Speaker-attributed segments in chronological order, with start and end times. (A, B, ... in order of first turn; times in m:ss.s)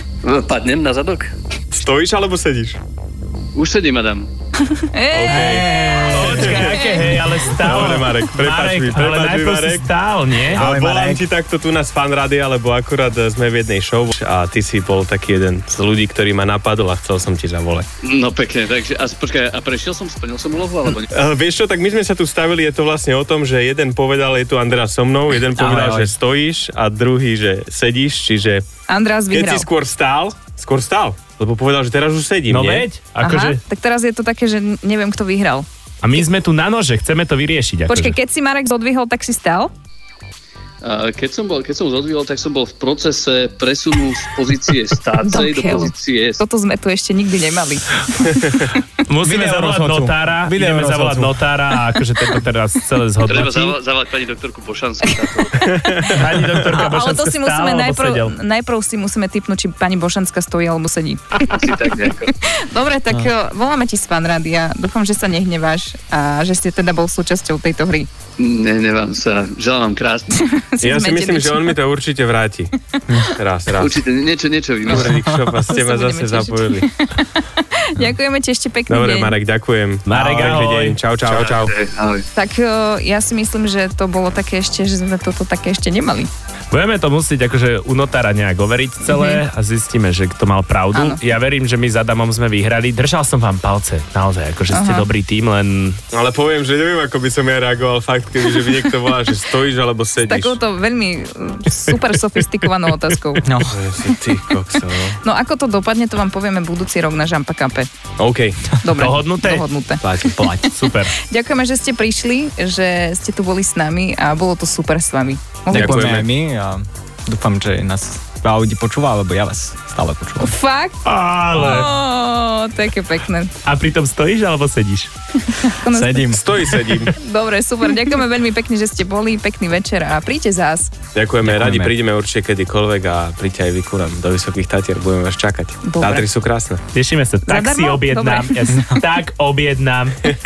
0:00.2-0:01.3 A
0:01.7-0:02.8 B
0:03.5-0:04.3 A
0:04.7-0:07.2 C
0:05.1-0:06.9 B
0:05.3-0:06.6 D
0:05.3-0:10.7 E
0:07.6-0:09.9 B
0:10.5-0:11.2 D
0:10.5-0:17.9 B
0:18.0-0:21.0 A
0:21.1-0:28.6 B
0:25.5-0:26.1 D
0:28.9-0:29.7 C
0:29.3-0:32.9 B
0:32.5-0:33.6 E
0:33.2-0:35.6 C
0:36.0-0:38.2 E
0:37.9-0:39.7 C
0:40.8-0:46.4 A
0:45.2-0:48.5 C
0:49.0-0:53.8 E
0:49.2-0:51.4 D
0:53.2-0:55.8 A
0:55.6-0:56.2 C
0:56.0-0:58.3 E
0:56.7-1:01.7 C
1:01.4-1:02.3 A
1:02.4-1:08.1 C
1:08.4-1:10.3 A
1:10.3-1:11.8 C
1:10.8-1:12.7 B
1:13.3-1:14.0 B
1:13.7-1:15.3 A
1:14.8-1:19.4 C
1:14.9-1:16.8 B
1:15.0-1:15.4 D
1:18.9-1:21.8 B
1:20.1-1:21.0 E
1:21.2-1:22.2 A
1:22.3-1:26.3 C
1:26.7-1:36.0 E
1:29.1-1:29.4 C
1:30.9-1:31.2 C
1:34.7-1:35.1 C
1:36.1-1:40.6 B
1:40.2-1:43.5 C
1:43.4-1:43.8 D
1:43.6-1:45.2 B
1:45.2-1:47.9 C
1:48.2-1:48.7 B
1:48.8-1:56.1 C
1:48.9-1:49.6 E
1:50.0-1:50.4 B
1:50.4-1:51.2 E
1:55.7-2:00.5 D
1:55.7-1:56.3 B
2:00.4-2:01.0 C
2:01.0-2:01.9 E
2:01.5-2:03.5 C
2:03.6-2:05.1 E
2:05.5-2:06.4 C
2:05.8-2:06.6 D
2:06.3-2:07.1 B
2:07.1-2:10.9 C
2:11.1-2:16.8 B
2:11.4-2:11.9 D
2:15.8-2:16.2 C
2:16.9-2:20.3 E
2:17.4-2:18.6 C
2:18.7-2:19.0 D